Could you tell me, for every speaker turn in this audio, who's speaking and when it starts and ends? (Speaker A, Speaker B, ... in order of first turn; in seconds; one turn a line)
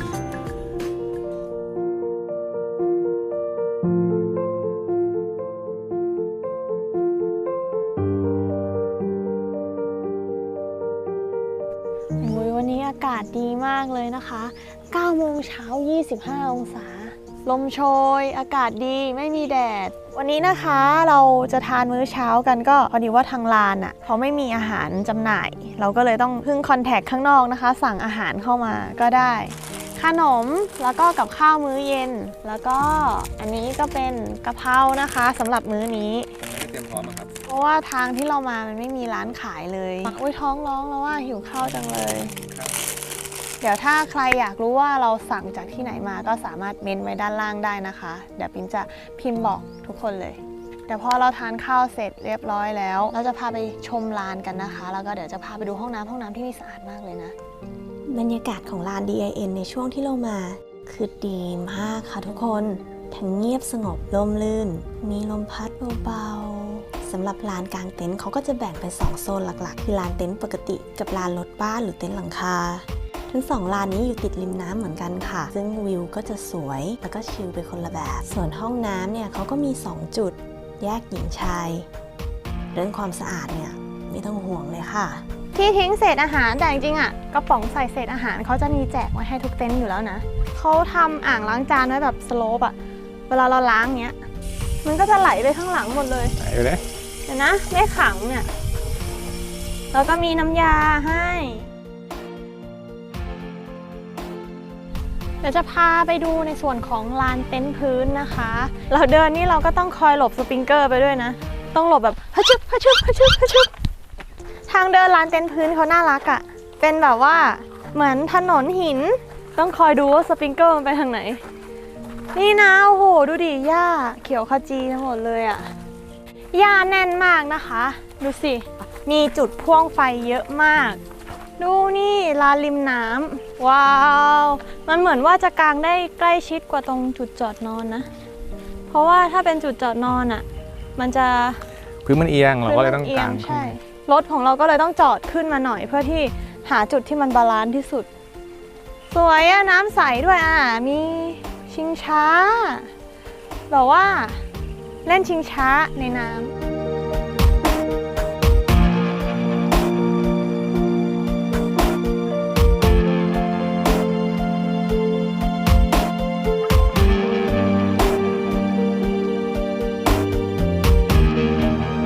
Speaker A: 12.2-36.3
Speaker B: 36.4-37.3
Speaker A: 37.4-42.3
Speaker B: 42.4-42.8
Speaker A: 43.6-57.3
Speaker C: 58.1-81.9
Speaker C: 82.7-85.2
Speaker A: 85.5-92.8
Speaker A: 93.3-94.2
Speaker A: 94.8-96.3
Speaker B: 96.4-96.8
Speaker A: 97.2-98.5
Speaker A: 99.9-101.7
Speaker A: 105.4-113.7
Speaker A: 114.7-121.4
Speaker A: 122.3-125.7
Speaker A: 126.5-131.0
Speaker A: 131.6-138.1
Speaker A: 138.9-141.6
Speaker B: 142.0-143.7
Speaker A: 142.7-148.1
Speaker A: 149.1-152.9
Speaker A: 153.7-154.4
Speaker A: 155.0-156.5